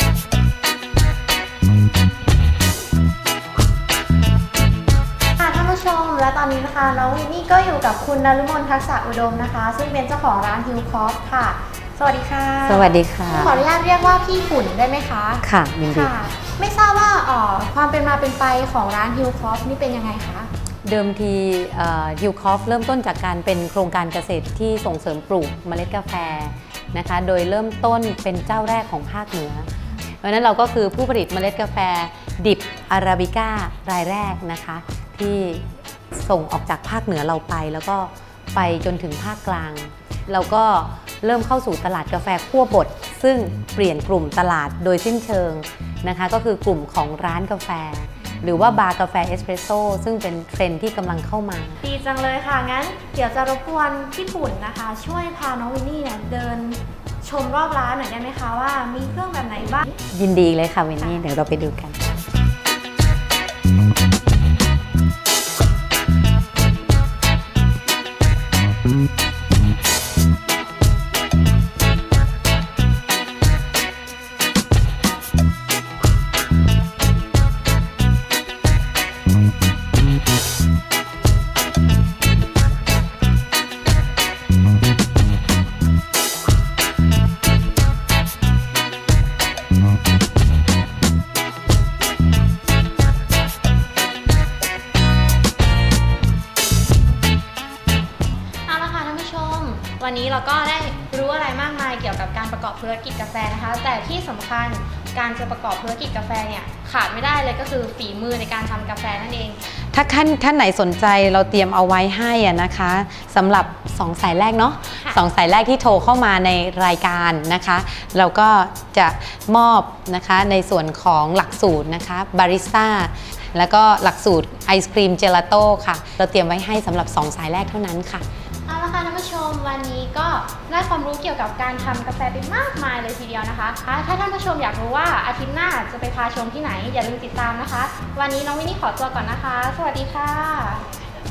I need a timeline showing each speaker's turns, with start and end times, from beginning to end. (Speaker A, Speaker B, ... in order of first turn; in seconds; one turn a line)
Speaker A: 5.4-20.5
Speaker B: 12.6-13.6
Speaker B: 15.4-16.1
Speaker B: 20.8-29.7
Speaker B: 30.2-51.8
Speaker A: 51.8-60.0
Speaker B: 60.1-62.0
Speaker A: 98.7-109.6
Speaker B: 109.9-128.2
Speaker A: 128.7-140.8